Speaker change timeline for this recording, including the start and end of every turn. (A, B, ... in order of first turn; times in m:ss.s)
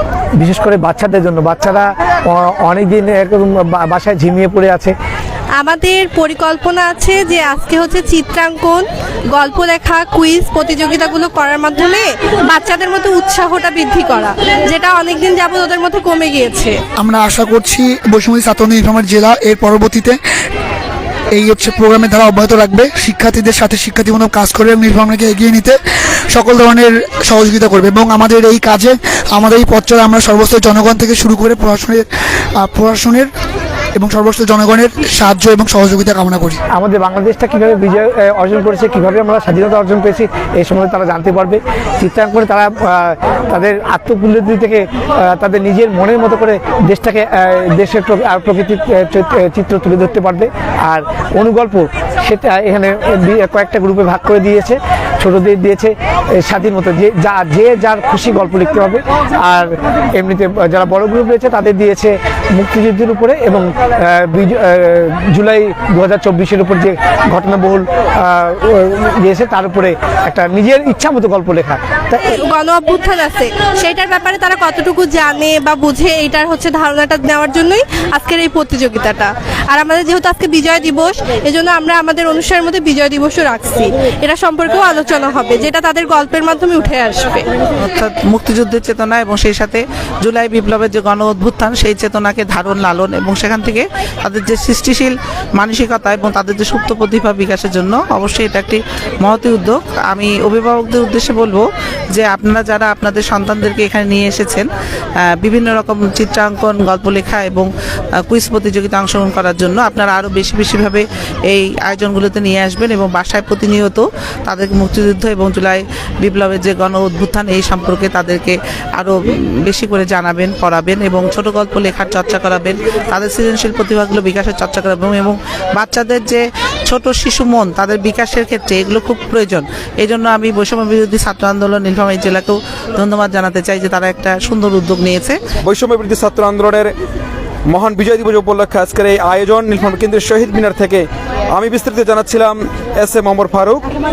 0:00.4-0:04.9 A
0:05.6-0:16.8 B
0:17.0-0:20.2 C
0:21.3-0:25.8 C
0:26.3-0:32.0 C
0:32.6-0:33.3 C
0:33.9-0:36.6 C
0:36.7-1:12.3 A
1:12.4-1:27.5 B
1:27.8-1:44.7 D
1:45.3-1:47.7 D
1:48.2-2:15.4 D
2:15.6-2:16.9 E
2:17.7-2:23.8 E